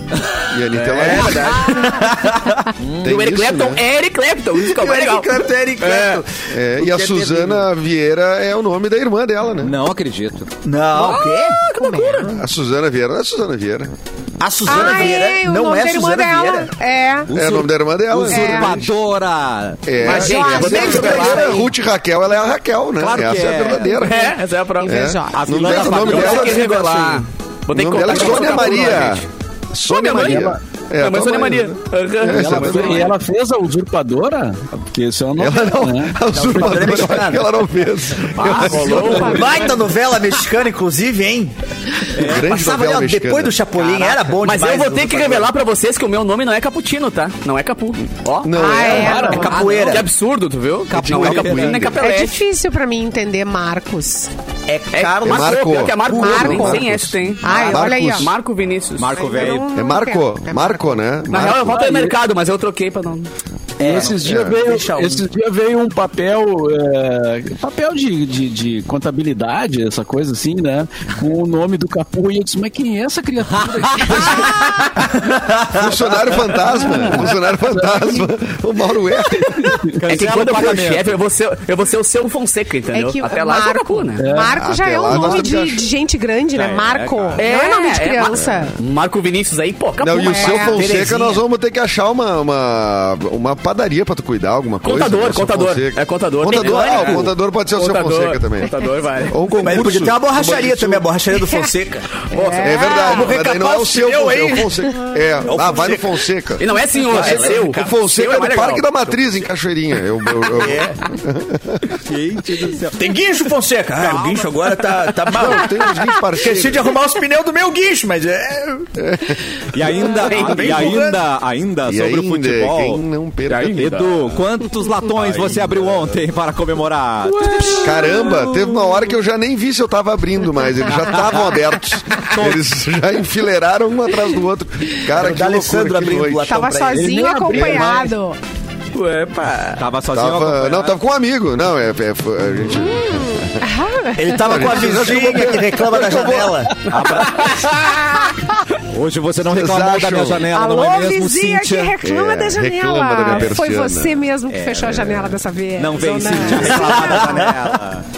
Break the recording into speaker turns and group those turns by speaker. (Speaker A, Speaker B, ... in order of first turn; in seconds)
Speaker A: 0.5-1.6, 3.0-3.8, 6.5-9.8, 12.3-13.9, 17.3-18.9, 19.9-27.2, 27.7-33.1, 35.4-39.4, 42.2-43.6, 48.4-49.3, 51.0-52.0, 55.3-58.3, 59.7-62.1, 64.2-64.6, 75.8-79.6, 84.6-85.8, 88.4-88.7, 90.0-98.7, 99.3-101.0, 102.6-111.9, 115.3-116.9, 119.0-120.4, 121.9-123.9, 127.8-136.6, 140.1-143.6, 144.4-146.7, 149.4-150.5, 152.0-154.2
Speaker B: 0.7-2.1, 3.0-6.2, 11.0-12.3, 20.0-21.6, 24.0-25.2, 25.7-29.3, 29.9-33.1, 38.4-39.7, 44.4-52.4, 54.9-59.4, 61.3-63.3, 80.1-84.2, 87.4-90.8, 94.8-99.4, 102.3-104.9, 106.6-109.2, 120.2-120.9, 123.5-124.2, 127.3-129.0, 138.9-139.8
Speaker C: 1.6-2.6, 4.6-7.7, 10.7-11.6, 14.4-16.7, 20.5-21.7, 36.3-37.5, 39.0-41.5, 42.2-45.5, 49.0-50.1, 54.7-55.8, 63.8-65.3, 74.6-75.8, 90.7-91.4, 96.5-97.3, 99.5-102.1, 105.5-106.1, 107.1-107.5, 110.6-111.0, 113.0-118.9, 120.2-121.2, 135.1-137.2, 144.2-146.8, 157.0-157.5
Speaker D: 2.8-3.2, 9.6-10.5, 17.3-19.8, 23.0-24.0, 25.4-26.8, 42.2-42.4, 43.8-44.3, 49.3-50.0, 50.9-51.8, 59.0-59.7, 73.8-74.1, 80.0-81.1, 86.5-87.5, 112.1-113.0, 119.7-123.0, 123.7-127.8, 132.2-132.6, 139.8-140.9, 146.9-147.8, 148.9-152.0, 154.5-158.1
Speaker E: 11.8-12.4, 14.7-17.3, 18.3-18.8, 20.0-21.4, 24.8-26.1, 38.6-39.9, 48.6-49.7, 51.9-54.3, 56.0-56.9, 57.4-58.3, 59.1-60.9, 74.1-74.6, 82.9-88.8, 90.2-90.8, 101.3-101.7, 102.3-103.3, 127.6-127.9, 136.4-138.4, 142.7-145.0, 150.5-157.5
Speaker F: 30.2-30.6, 32.3-36.2, 63.8-74.5, 77.7-78.3, 84.2-85.2, 137.0-138.1